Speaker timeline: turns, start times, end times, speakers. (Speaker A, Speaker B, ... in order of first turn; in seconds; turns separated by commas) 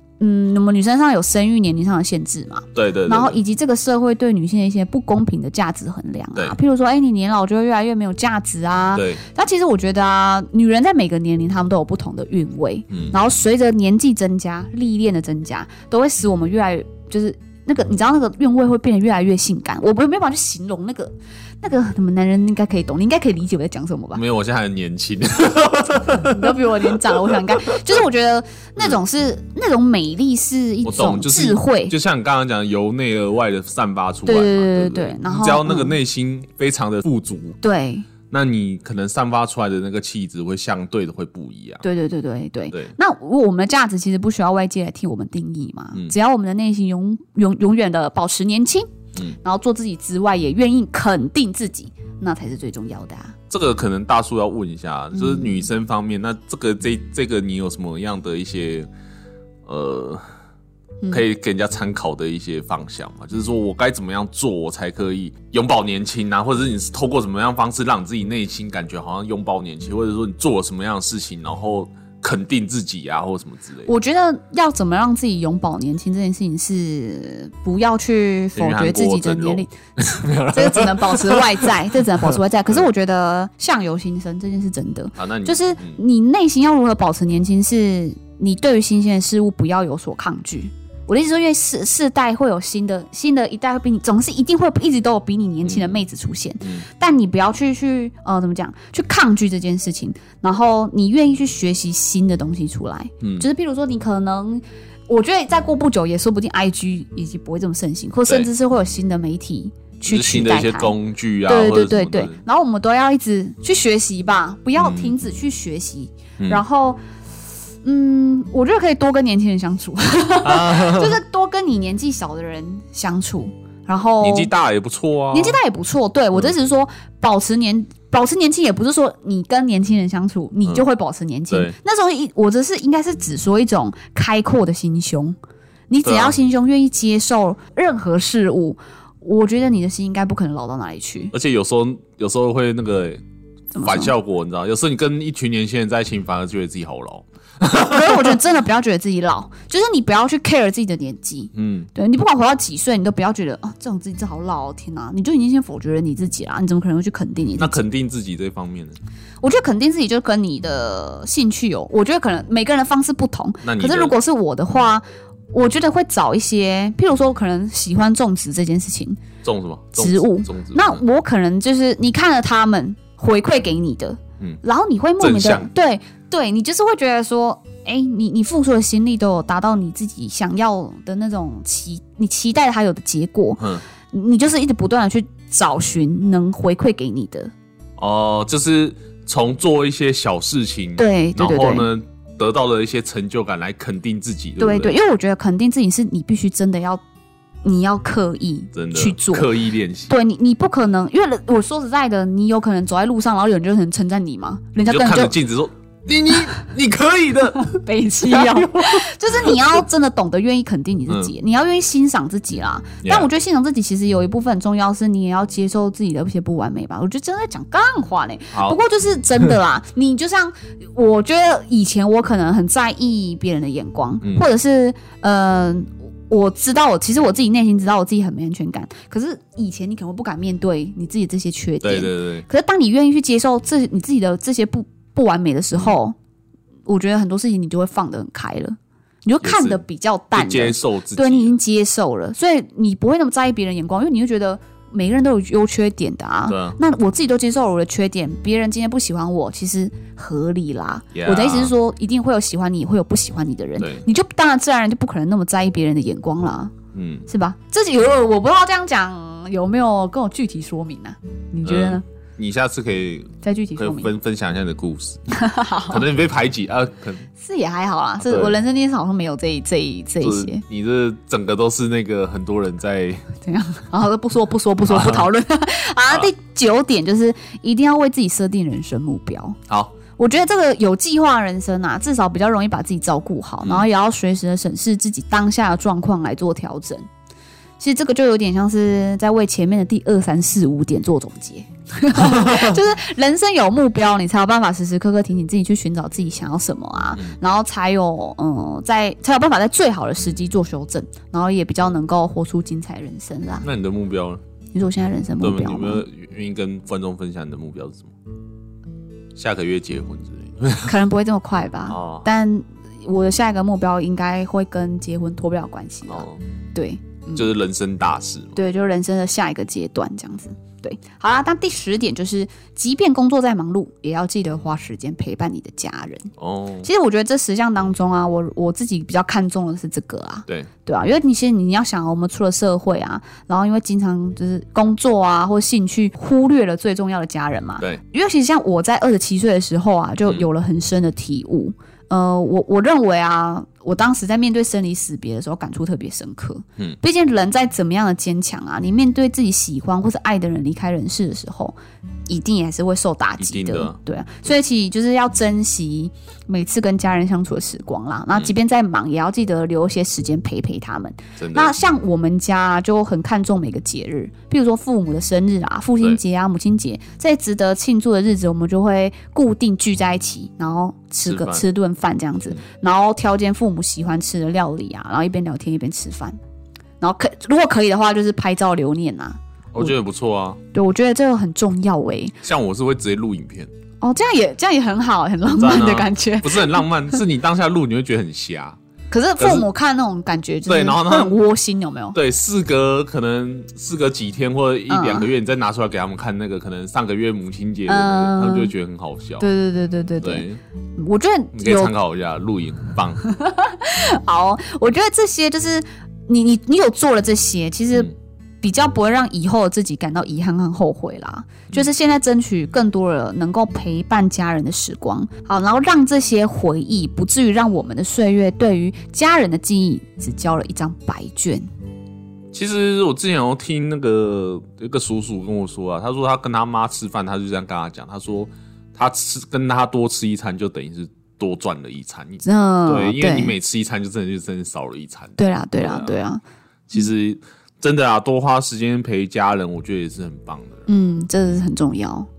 Speaker A: 0.2-24.2, Speaker B: 2.8-3.4, Speaker B: 8.9-9.2, Speaker B: 24.1-27.8, Speaker A: 26.1-31.9, Speaker B: 30.8-37.6, Speaker A: 34.3-36.0, Speaker A: 37.6-38.1, Speaker B: 38.3-41.8, Speaker A: 41.8-53.4, Speaker B: 53.5-58.9, Speaker A: 55.1-55.7, Speaker B: 59.7-60.2, Speaker B: 61.1-73.9, Speaker A: 73.9-79.7, Speaker B: 78.6-81.7, Speaker A: 80.4-117.0, Speaker B: 85.2-86.0, Speaker B: 95.7-96.0, Speaker B: 103.2-103.5, Speaker B: 110.0-112.4, Speaker B: 114.8-115.2, Speaker A: 117.8-124.5, Speaker B: 120.4-121.2, Speaker B: 124.2-125.6, Speaker A: 125.3-135.4, Speaker B: 131.5-131.8, Speaker A: 135.9-141.3, Speaker B: 136.1-136.4, Speaker B: 141.3-143.2, Speaker A: 143.7-144.1, Speaker B: 143.8-148.4, Speaker A: 147.8-157.8, Speaker B: 151.5-151.9, Speaker B: 157.6-159.0, Speaker A: 159.4-169.2, Speaker B: 163.6-164.1, Speaker B: 169.4-171.0, Speaker A: 170.0-187.5, Speaker B: 175.2-175.7, Speaker B: 188.0-195.0, Speaker A: 191.0-191.9, Speaker A: 194.6-197.0, Speaker A: 197.6-199.5, Speaker B: 198.8-200.1, Speaker A: 200.1-205.3, Speaker B: 204.9-209.8, Speaker A: 207.7-236.2, Speaker B: 213.0-213.3, Speaker B: 218.5-218.8, Speaker B: 231.8-232.5, Speaker A: 236.9-256.7, Speaker B: 239.4-239.8, Speaker B: 240.3-241.6, Speaker B: 246.5-246.8, Speaker B: 251.2-251.7, Speaker B: 253.8-254.1, Speaker B: 256.9-257.3, Speaker A: 257.3-262.0, Speaker B: 261.6-265.2, Speaker A: 263.4-264.1, Speaker A: 265.3-266.0, Speaker B: 265.9-267.3, Speaker A: 267.4-270.6, Speaker B: 268.2-268.6, Speaker B: 270.2-273.3, Speaker A: 273.4-279.6, Speaker B: 274.9-275.3, Speaker B: 279.7-280.0, Speaker A: 280.2-287.1, Speaker A: 287.8-303.7, Speaker B: 292.2-292.8, Speaker B: 303.6-304.4, Speaker A: 304.7-306.0, Speaker B: 305.4-308.1, Speaker B: 309.4-310.9, Speaker A: 310.9-317.5, Speaker B: 311.9-312.3, Speaker B: 316.1-316.4, Speaker B: 317.4-318.6, Speaker A: 318.6-326.3, Speaker B: 326.4-326.9, Speaker A: 326.8-351.8, Speaker A: 352.3-376.4, Speaker B: 353.4-354.0, Speaker B: 361.4-361.7, Speaker B: 371.2-371.6, Speaker A: 377.0-379.9, Speaker B: 379.7-380.6, Speaker A: 380.7-382.4, Speaker B: 382.4-383.7, Speaker A: 384.0-387.2, Speaker B: 385.4-388.8, Speaker A: 389.1-392.2, Speaker B: 389.4-389.7, Speaker B: 390.7-391.4, Speaker B: 392.1-399.4, Speaker A: 394.9-395.3, Speaker A: 397.9-398.7, Speaker A: 399.4-400.5, Speaker B: 400.2-400.6, Speaker A: 401.0-401.9, Speaker B: 401.6-403.2, Speaker A: 403.2-421.6, Speaker B: 422.5-436.2, Speaker A: 432.4-433.6, Speaker A: 435.4-436.4, Speaker B: 436.9-440.9, Speaker A: 440.9-442.3